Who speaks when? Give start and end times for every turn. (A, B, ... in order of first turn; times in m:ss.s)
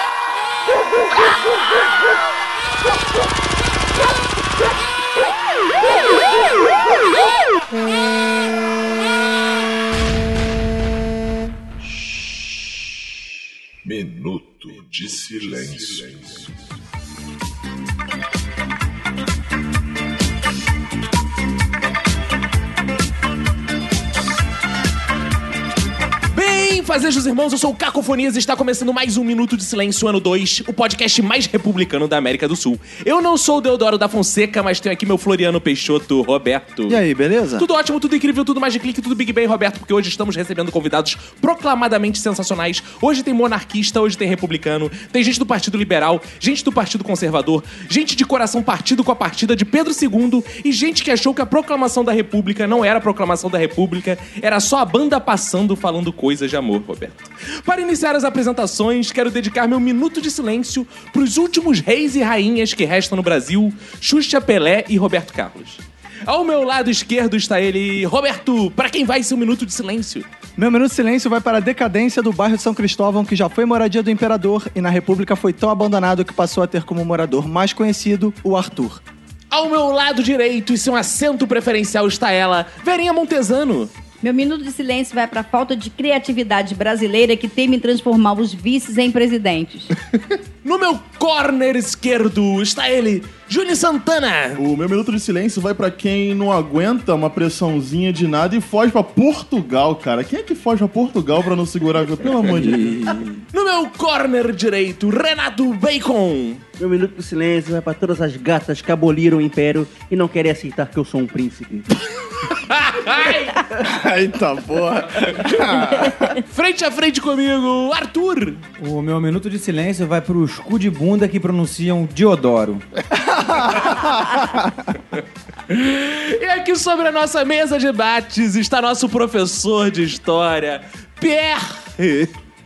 0:13.8-0:16.6 A
0:26.3-0:37.0 B
0:36.9-0:37.7 C
0:37.6-1:10.3 B
1:10.6-1:19.0 C
1:19.5-1:23.9 B
1:24.2-1:29.9 D
1:30.6-1:34.6 B
1:34.6-1:43.0 E
1:42.4-1:43.4 C
1:43.5-1:46.6 B
1:46.8-1:51.9 F
1:52.4-1:53.6 B
1:53.8-1:56.3 C
1:55.2-1:55.7 B
1:56.5-1:58.6 B
1:58.8-2:02.8 G
2:03.1-2:04.9 C
2:05.7-2:12.3 B